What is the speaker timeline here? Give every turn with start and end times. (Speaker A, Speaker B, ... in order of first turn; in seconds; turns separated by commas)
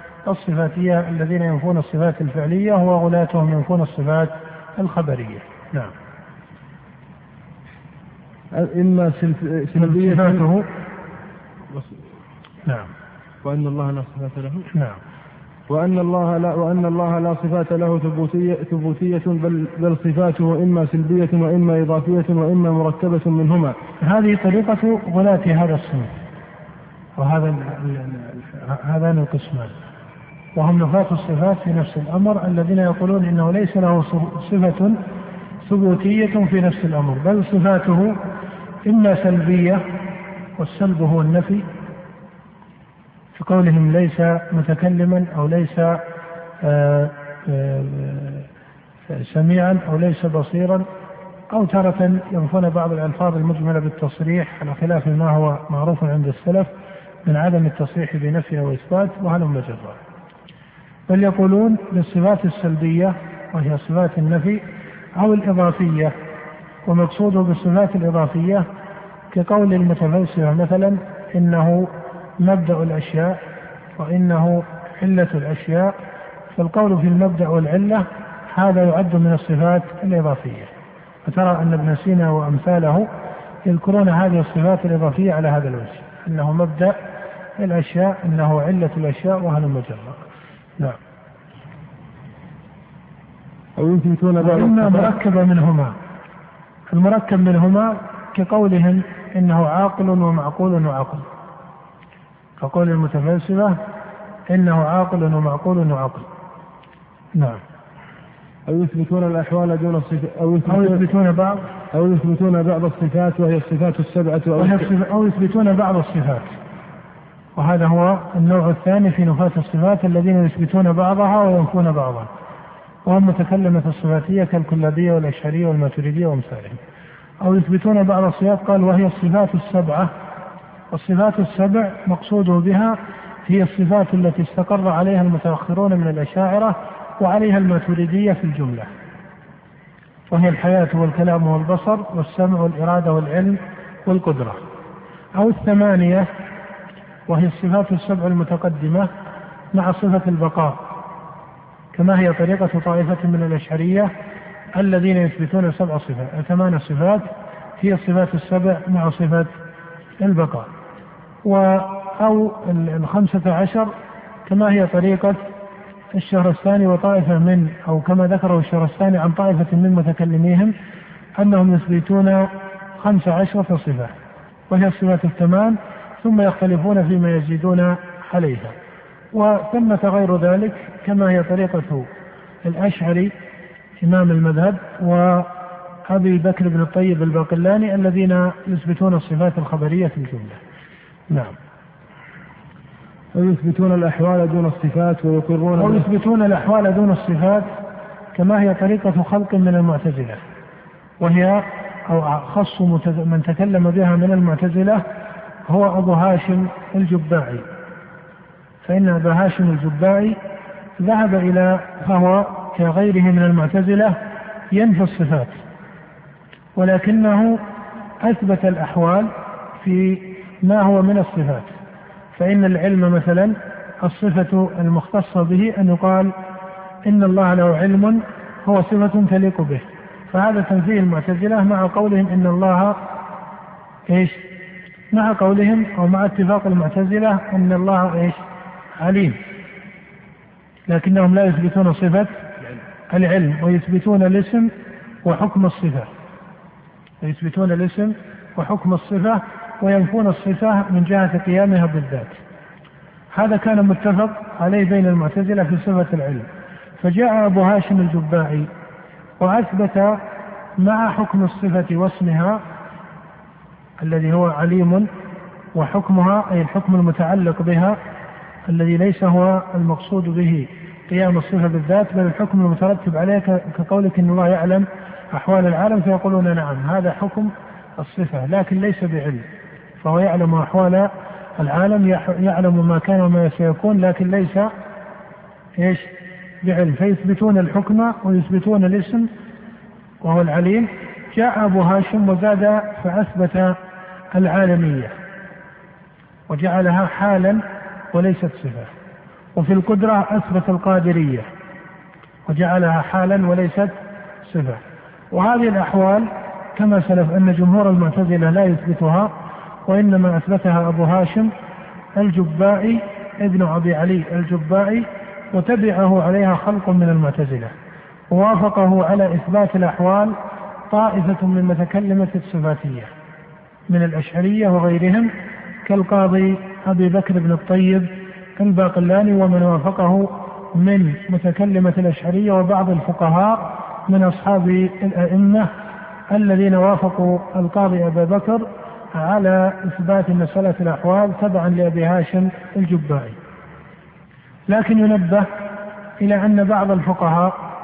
Speaker A: 0.2-5.9, Speaker B: 8.5-10.4, Speaker A: 9.8-10.7, Speaker B: 11.7-12.0, Speaker A: 12.7-12.9, Speaker B: 13.4-14.7, Speaker A: 14.7-15.0, Speaker B: 15.7-23.8, Speaker A: 24.0-26.1, Speaker A: 27.2-29.7, Speaker A: 30.5-35.0, Speaker A: 35.6-38.2, Speaker A: 38.8-39.8, Speaker A: 40.6-41.6, Speaker A: 43.3-46.0, Speaker A: 46.6-48.5, Speaker A: 49.1-50.9, Speaker A: 51.5-56.7, Speaker A: 57.2-60.0, Speaker A: 61.1-64.6, Speaker A: 65.2-66.1, Speaker A: 66.8-68.7, Speaker A: 69.3-73.4, Speaker A: 74.0-75.9, Speaker A: 76.5-80.7, Speaker A: 81.2-83.1, Speaker A: 83.6-87.0, Speaker A: 87.6-90.2, Speaker B: 93.8-95.1, Speaker A: 94.4-95.9, Speaker A: 96.9-101.2, Speaker A: 102.6-103.8, Speaker A: 104.5-106.3, Speaker A: 107.3-107.6, Speaker B: 108.7-111.0, Speaker A: 110.7-111.7, Speaker B: 111.9-114.9, Speaker A: 114.6-116.5, Speaker A: 117.5-122.3, Speaker A: 123.0-126.8, Speaker A: 127.4-130.1, Speaker A: 130.9-138.9, Speaker A: 140.3-144.6, Speaker A: 145.3-146.3, Speaker A: 147.3-149.1, Speaker A: 149.7-150.9, Speaker A: 151.9-154.1, Speaker A: 154.8-159.5, Speaker A: 160.2-160.7, Speaker A: 161.4-163.9, Speaker A: 164.4-165.4, Speaker A: 166.1-170.7, Speaker A: 171.4-174.1, Speaker A: 174.7-178.7, Speaker A: 179.3-182.1, Speaker A: 182.6-183.3, Speaker A: 184.0-185.5, Speaker A: 186.1-190.6, Speaker A: 191.3-191.6, Speaker B: 193.3-196.1, Speaker A: 195.8-197.7, Speaker A: 198.3-200.4, Speaker A: 201.2-205.0, Speaker A: 205.7-207.7, Speaker A: 208.8-210.4, Speaker A: 211.0-214.2, Speaker A: 214.7-215.6, Speaker A: 216.8-217.6, Speaker A: 218.2-221.7, Speaker A: 222.3-226.3, Speaker A: 227.1-233.0, Speaker A: 234.1-234.5, Speaker A: 235.1-238.4, Speaker A: 239.0-239.4, Speaker A: 240.9-242.5, Speaker A: 243.1-244.7, Speaker A: 245.2-246.1, Speaker A: 247.2-252.4, Speaker A: 253.3-256.5, Speaker A: 257.0-258.7, Speaker A: 259.4-260.2, Speaker A: 260.8-262.6, Speaker A: 264.0-265.1, Speaker A: 265.7-268.0, Speaker A: 268.7-279.4, Speaker A: 280.0-284.7, Speaker A: 285.8-289.3, Speaker A: 290.2-293.8, Speaker A: 294.3-295.1, Speaker A: 296.5-297.6, Speaker A: 298.1-298.9, Speaker A: 299.6-301.5, Speaker A: 302.5-309.3, Speaker A: 309.9-311.5, Speaker A: 312.2-317.7, Speaker A: 318.3-320.3, Speaker A: 320.9-323.1, Speaker A: 323.9-325.3, Speaker A: 325.8-335.7, Speaker A: 336.3-343.4, Speaker A: 344.7-345.5, Speaker A: 346.2-347.6